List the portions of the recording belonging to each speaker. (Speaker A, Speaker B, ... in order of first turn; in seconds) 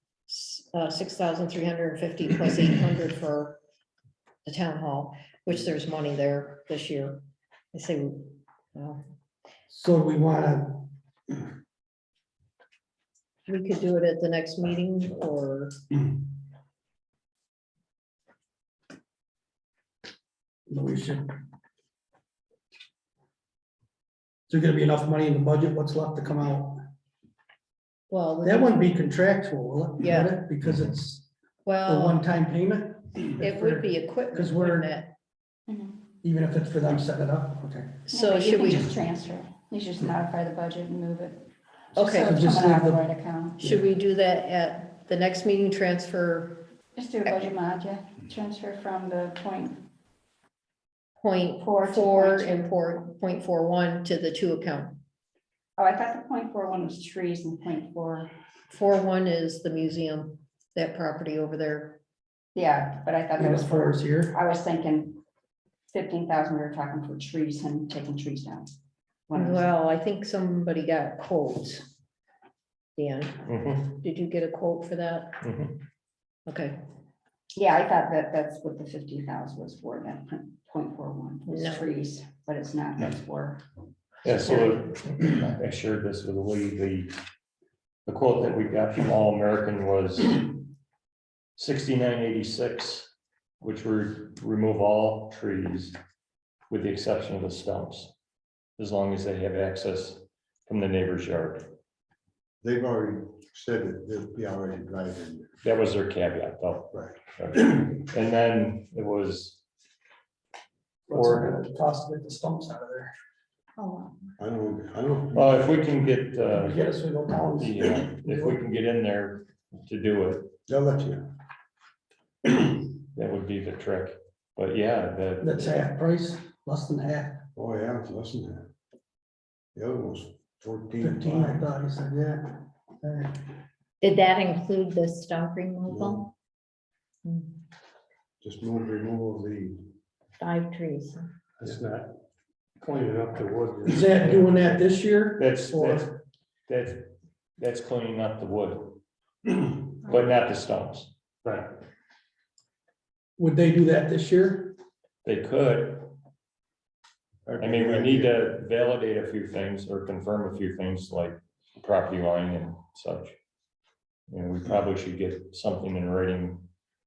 Speaker A: 0.3-3.6, 4.4-7.2, 7.7-9.0, 13.5-15.7, 28.1-28.9, 30.0-30.4, 31.6-32.3, 33.4-35.1, 38.1-38.9, 41.9-42.4, 43.6-46.6, 51.2-55.0, 58.7-62.0, 69.3-71.9, 73.0-75.4, 76.5-76.8, 81.5-81.9
Speaker B: 9.7-10.8, 20.7-21.3, 24.5-26.8, 28.4-31.3, 31.9-34.9, 36.2-37.9, 42.2-43.0, 63.4-64.4, 111.1-113.1, 116.5-118.6, 125.4-127.4, 131.0-133.3, 143.9-146.1, 153.4-154.8
Speaker C: 35.7-36.0, 38.1-41.4, 41.9-43.7, 46.9-49.8, 51.6-52.6, 55.8-58.3, 62.5-65.2, 65.9-68.7, 69.3-69.7, 77.5-83.6, 113.8-114.1
Speaker D: 73.5-74.0, 75.4-75.8, 84.2-87.1, 88.0-90.6, 91.5-96.0, 96.7-98.1, 98.8-101.7, 105.6-109.6, 111.1-111.6, 115.3-116.8, 117.5-120.5, 123.0-125.8, 145.4-146.1, 146.7-149.0, 149.6-151.1, 155.2-156.1, 157.6-163.3, 164.3-166.7
Speaker E: 102.6-105.5, 106.9-107.2, 114.4-115.7, 120.7-121.3, 127.5-128.7, 129.7-131.7, 135.9-136.3, 138.4-139.9, 157.4-158.3
Speaker F: 134.0-136.3, 137.2-137.5, 140.4-141.3
Speaker G: 141.6-142.1, 142.8-144.7